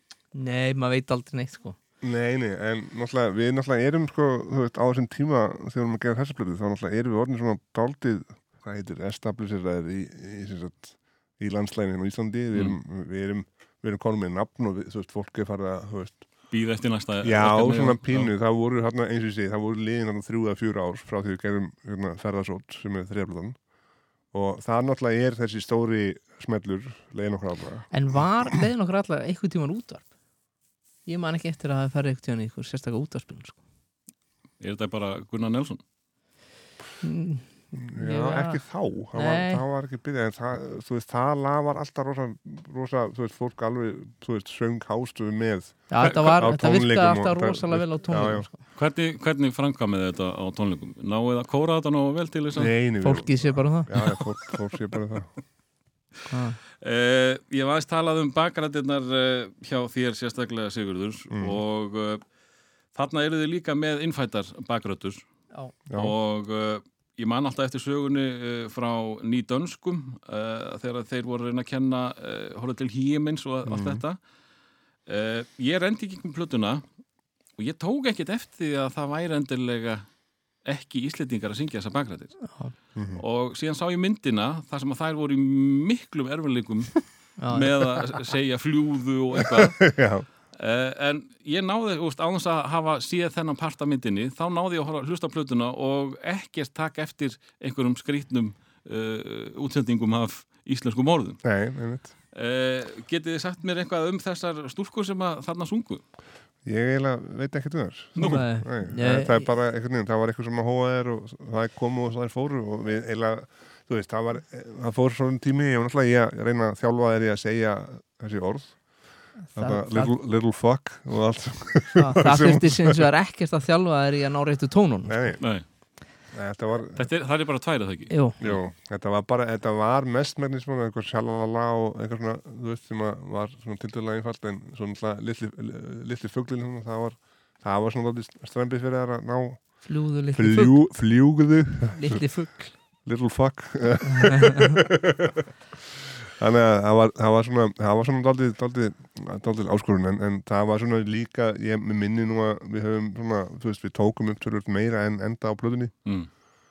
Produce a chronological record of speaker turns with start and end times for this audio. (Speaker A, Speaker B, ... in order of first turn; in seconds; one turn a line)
Speaker A: 0.3-1.8
Speaker B: 2.0-16.3
Speaker C: 16.5-18.3
Speaker B: 17.2-23.6
Speaker B: 24.3-27.9
Speaker A: 27.9-30.1
Speaker A: 31.1-33.6
Speaker C: 34.6-35.8
Speaker A: 37.0-38.6
Speaker B: 37.7-48.5
Speaker A: 39.1-39.6
Speaker A: 45.9-48.6
Speaker C: 48.8-52.7
Speaker B: 52.5-55.3
Speaker A: 53.0-53.9
Speaker A: 56.3-56.6
Speaker C: 56.8-62.2
Speaker B: 61.3-61.6
Speaker C: 62.9-65.2
Speaker B: 65.9-66.2
Speaker C: 65.9-74.2
Speaker B: 73.7-74.0
Speaker C: 75.1-76.8
Speaker C: 77.6-80.0
Speaker C: 80.6-82.4
Speaker A: 82.4-82.7
Speaker B: 83.0-83.2
Speaker C: 83.2-89.9
Speaker A: 87.4-88.2
Speaker B: 89.3-90.2
Speaker C: 90.5-101.4
Speaker B: 101.4-102.1
Speaker C: 102.3-106.0
Speaker B: 106.6-118.8
Speaker A: 108.2-109.5
Speaker A: 119.4-120.1
Speaker B: 119.5-123.1
Speaker A: 122.0-125.3
Speaker B: 125.1-125.5
Speaker C: 125.4-125.7
Speaker B: 126.3-127.1
Speaker C: 127.0-128.6
Speaker A: 128.1-128.4
Speaker B: 128.4-142.4
Speaker A: 139.8-140.7
Speaker A: 141.9-142.7
Speaker B: 143.0-145.5
Speaker A: 144.0-144.8
Speaker B: 146.2-155.9